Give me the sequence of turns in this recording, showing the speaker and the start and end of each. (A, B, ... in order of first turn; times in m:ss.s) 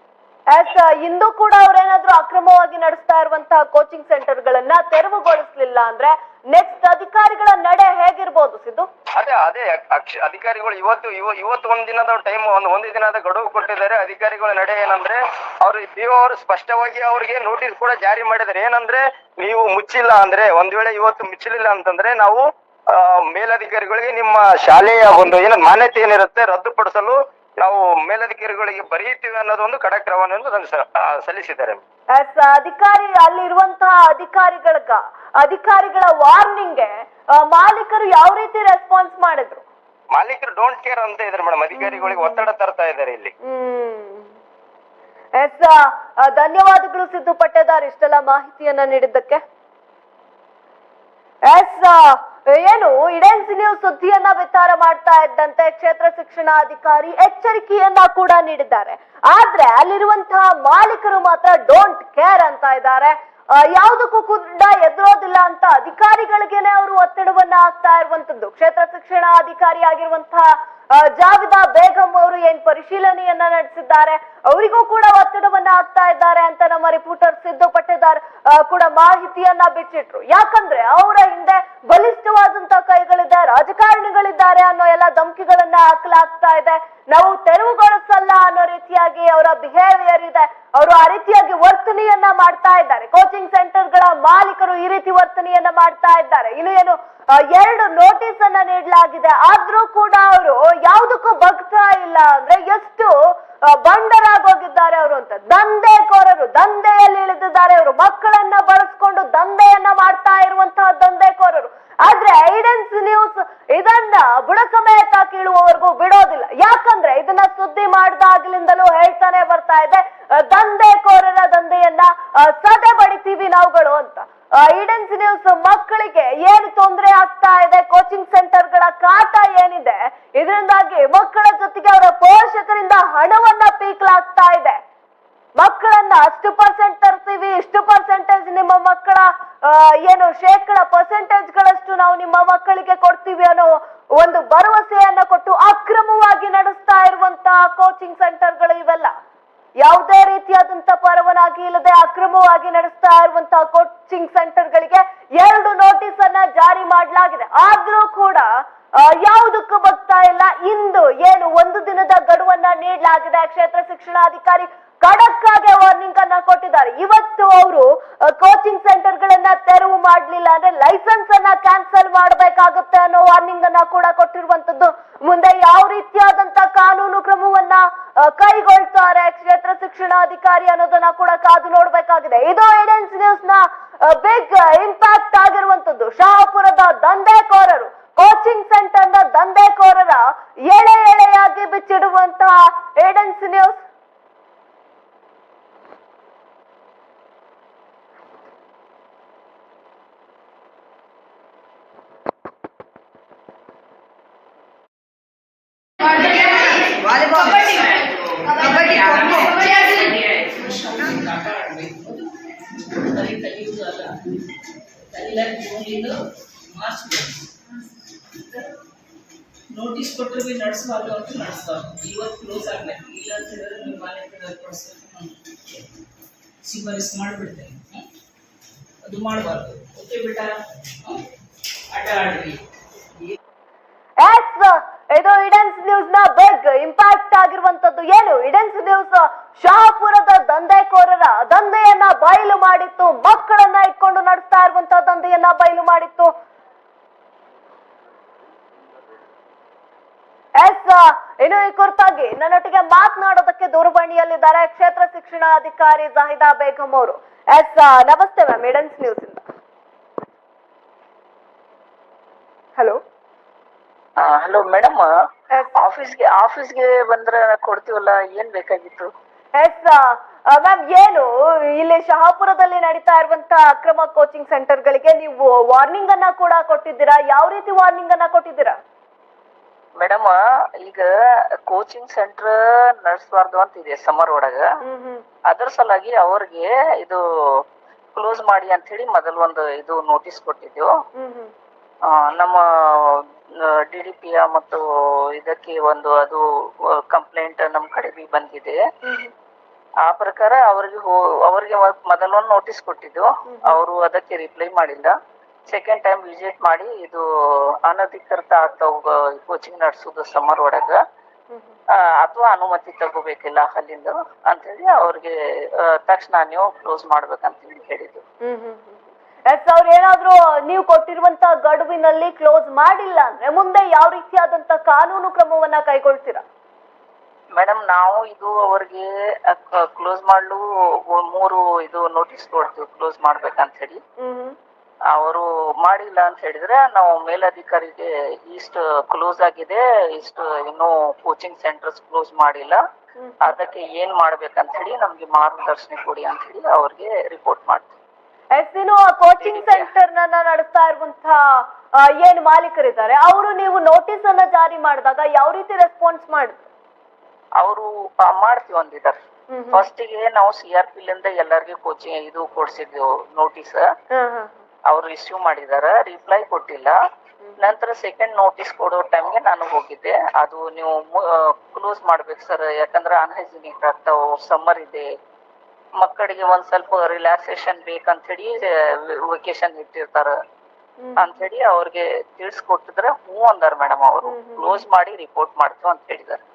0:00.5-0:08.9 A
0:09.2-0:31.8 B
0:32.2-0:39.6 A
0:40.1-0:43.3 B
0:41.8-0:42.4 A
0:43.4-0:44.3 A
0:45.4-0:49.4 A
0:51.5-1:43.1 A
1:43.6-2:14.8 A
2:15.6-2:29.1 A
2:29.8-2:38.5 A
2:39.0-3:13.8 A
3:26.1-3:34.2 C
3:35.1-3:36.2 C
3:36.7-3:37.5 C
3:39.7-3:45.4 C
3:46.6-3:48.1 C
3:49.0-3:51.2 C
3:51.9-3:52.6 C
3:54.2-4:06.3 A
4:10.6-4:19.4 A
4:24.2-4:25.1 D
4:25.5-4:25.8 A
4:25.8-4:29.1 D
4:29.6-4:38.8 A
4:40.0-4:41.1 D
4:41.7-4:44.6 D
4:44.8-4:45.2 A
4:45.5-4:47.6 D
4:48.2-4:50.9 D
4:51.2-4:51.5 A
4:52.1-4:54.8 D
4:55.4-4:56.4 D
4:57.0-4:58.8 D
4:59.0-4:59.3 A
5:00.0-5:05.2 D
5:03.5-5:03.8 A
5:05.7-5:07.2 D
5:07.8-5:11.0 D
5:12.0-5:18.2 D
5:18.4-5:26.4 A
5:27.6-5:34.0 D
5:34.2-5:34.6 A
5:35.1-5:42.8 D
5:43.2-5:43.6 A
5:43.4-5:48.0 D
5:48.6-5:56.7 A
5:49.4-5:49.9 D
5:57.6-5:59.2 D
5:59.5-5:59.8 A
5:59.7-6:03.9 D
6:04.1-6:04.6 A
6:04.9-6:07.0 D
6:07.4-6:07.7 A
6:07.6-6:15.1 D
6:16.0-6:20.4 D
6:21.0-6:21.4 A
6:21.2-6:26.4 D
6:24.3-6:24.8 A